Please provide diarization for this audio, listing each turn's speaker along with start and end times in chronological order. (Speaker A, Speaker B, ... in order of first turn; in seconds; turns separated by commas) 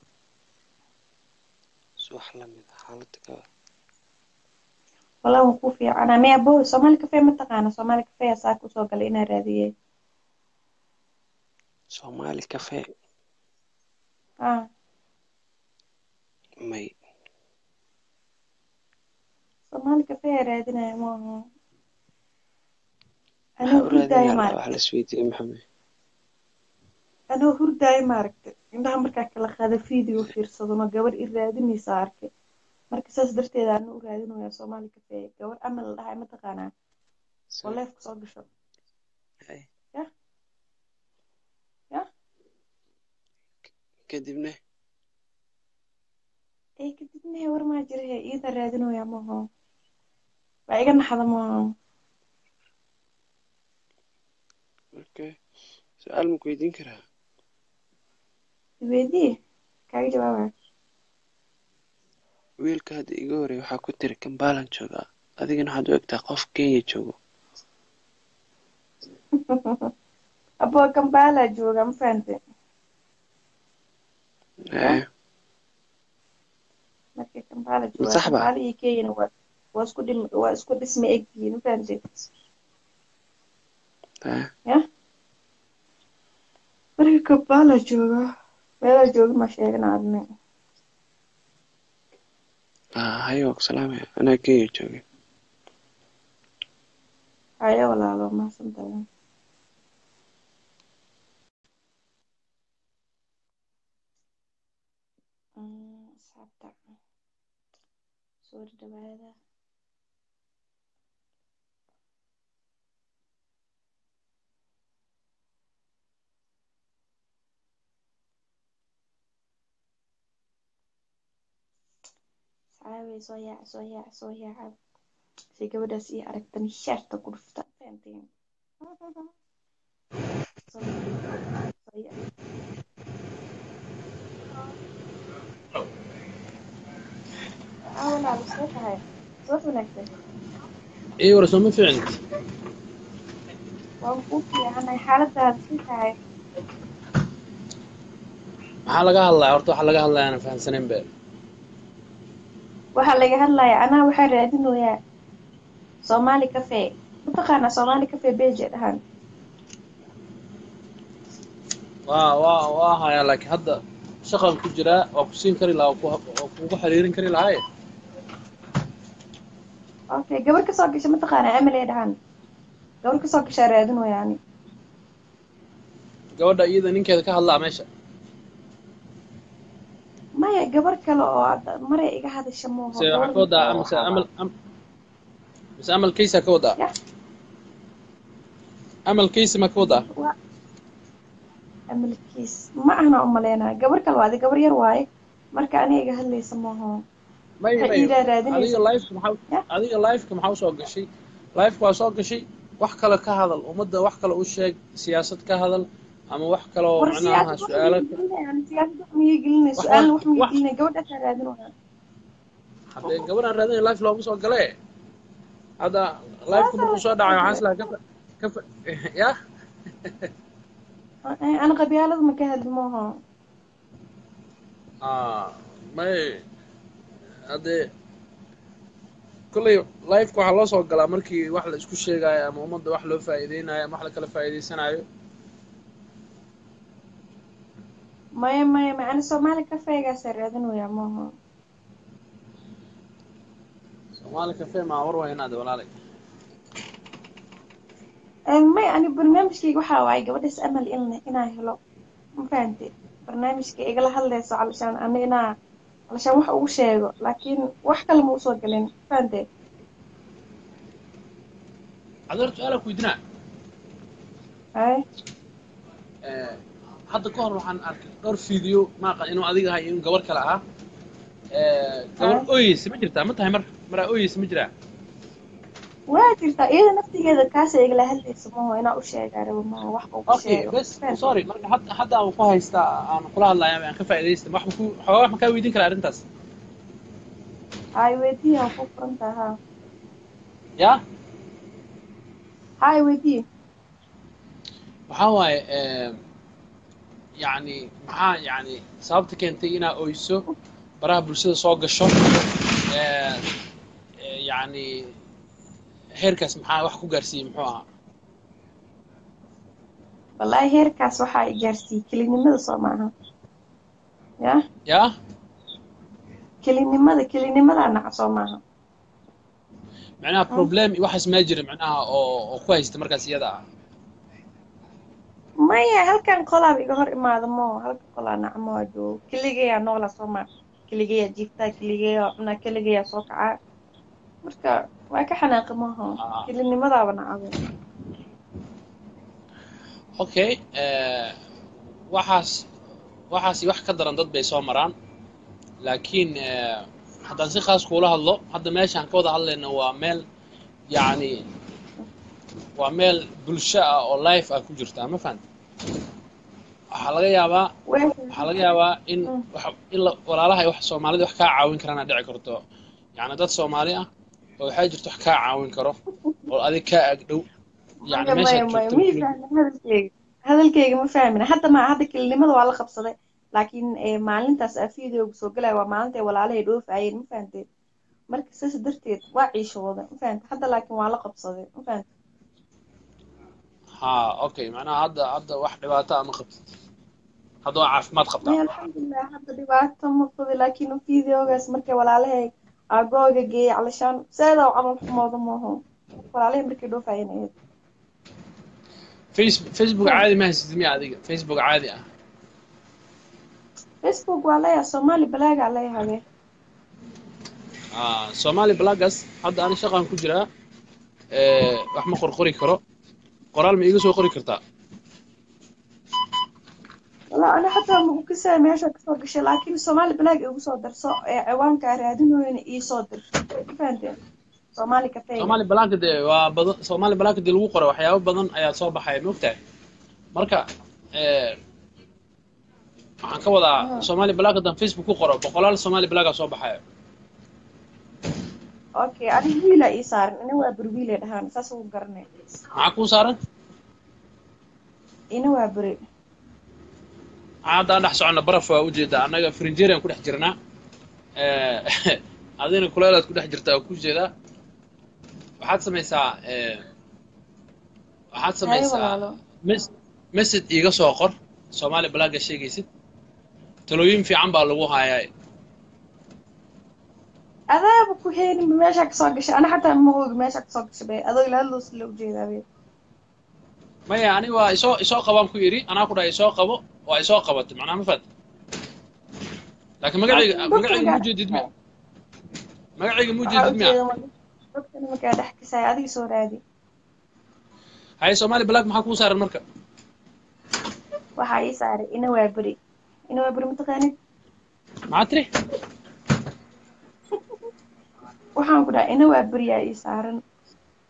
Speaker A: 2.0-3.4, Speaker B: 5.2-9.7, Speaker A: 12.0-12.9, Speaker A: 16.6-17.0, Speaker B: 19.7-21.4, Speaker B: 23.6-24.5, Speaker A: 23.6-25.6, Speaker B: 27.3-32.3, Speaker B: 32.9-36.7, Speaker A: 37.5-37.8, Speaker B: 37.6-38.5, Speaker A: 44.1-44.6, Speaker B: 46.8-49.4, Speaker B: 50.7-51.5, Speaker A: 55.0-55.4, Speaker A: 56.0-57.0, Speaker B: 58.8-59.3, Speaker B: 59.9-60.5, Speaker A: 62.6-67.2, Speaker B: 69.5-69.9, Speaker B: 70.7-72.4, Speaker A: 74.7-75.1, Speaker B: 77.2-82.3, Speaker A: 78.0-78.5, Speaker A: 84.2-84.5, Speaker B: 87.0-88.2, Speaker B: 88.8-90.2, Speaker A: 93.0-95.0, Speaker B: 97.6-99.0, Speaker B: 105.6-106.8, Speaker B: 108.4-109.4, Speaker B: 122.8-124.8, Speaker B: 125.5-128.3, Speaker B: 128.8-129.3, Speaker B: 130.7-131.1, Speaker B: 131.8-132.2, Speaker B: 138.0-140.1, Speaker C: 141.2-142.2, Speaker B: 144.0-146.2, Speaker C: 148.9-151.1, Speaker B: 153.0-155.0, Speaker B: 156.1-159.0, Speaker C: 162.1-167.6, Speaker B: 170.1-172.2, Speaker B: 173.0-174.4, Speaker C: 176.4-177.9, Speaker B: 180.4-184.3, Speaker C: 183.0-184.5, Speaker C: 185.8-186.8, Speaker C: 189.1-190.1, Speaker B: 189.8-190.3, Speaker B: 191.9-197.0, Speaker C: 197.6-208.2, Speaker B: 197.8-198.7, Speaker B: 207.0-211.7, Speaker C: 209.8-210.5, Speaker C: 212.9-214.8, Speaker C: 215.8-219.4, Speaker B: 216.5-217.6, Speaker B: 221.3-223.1, Speaker C: 225.0-226.4, Speaker C: 227.5-227.9, Speaker C: 229.5-235.1, Speaker B: 238.4-241.3, Speaker C: 244.2-245.9, Speaker B: 248.5-251.8, Speaker B: 252.4-255.4, Speaker B: 256.1-259.4, Speaker C: 262.3-263.2, Speaker B: 264.8-265.0, Speaker C: 266.2-266.6, Speaker C: 267.1-270.6, Speaker C: 271.6-274.7, Speaker B: 272.2-272.4, Speaker B: 276.1-281.2, Speaker C: 280.3-286.2, Speaker B: 288.0-289.6, Speaker B: 292.8-293.4, Speaker C: 295.1-296.2, Speaker C: 297.4-300.4, Speaker C: 301.0-303.4, Speaker C: 304.2-305.1, Speaker C: 306.2-307.9, Speaker B: 310.4-313.1, Speaker C: 314.9-315.1, Speaker B: 316.6-318.6, Speaker C: 320.2-323.6, Speaker B: 325.7-333.5, Speaker B: 334.4-337.6, Speaker C: 336.2-336.5, Speaker C: 340.2-341.4, Speaker C: 342.1-342.6, Speaker C: 343.3-344.9, Speaker C: 345.8-350.2, Speaker C: 350.9-351.3, Speaker C: 352.8-355.4, Speaker C: 356.9-357.7, Speaker B: 357.9-358.6, Speaker C: 358.3-362.6, Speaker C: 363.2-364.1, Speaker C: 364.6-367.4, Speaker C: 368.1-369.3, Speaker B: 368.1-377.6, Speaker B: 378.3-382.1, Speaker C: 384.0-386.6, Speaker C: 387.6-388.6, Speaker B: 388.4-397.5, Speaker C: 399.3-402.0, Speaker B: 404.0-406.2, Speaker C: 408.0-410.5, Speaker C: 411.4-412.8, Speaker C: 413.5-414.6, Speaker B: 417.3-424.1, Speaker B: 424.8-425.6, Speaker C: 425.4-429.6, Speaker C: 430.4-430.6, Speaker C: 431.2-431.6, Speaker C: 433.3-436.8, Speaker B: 433.8-434.0, Speaker B: 439.0-442.3, Speaker C: 442.8-443.4, Speaker B: 445.4-446.0, Speaker C: 447.7-450.6, Speaker C: 451.4-454.3, Speaker C: 455.6-456.8, Speaker C: 458.4-462.9, Speaker B: 458.7-459.4, Speaker C: 463.9-465.3, Speaker B: 467.7-472.6, Speaker C: 474.1-478.2, Speaker C: 480.0-481.6, Speaker B: 480.3-481.7, Speaker C: 483.0-484.0, Speaker B: 483.5-486.6, Speaker C: 488.2-489.6, Speaker B: 491.4-492.8, Speaker B: 493.3-494.1, Speaker C: 495.1-495.5, Speaker B: 498.6-500.4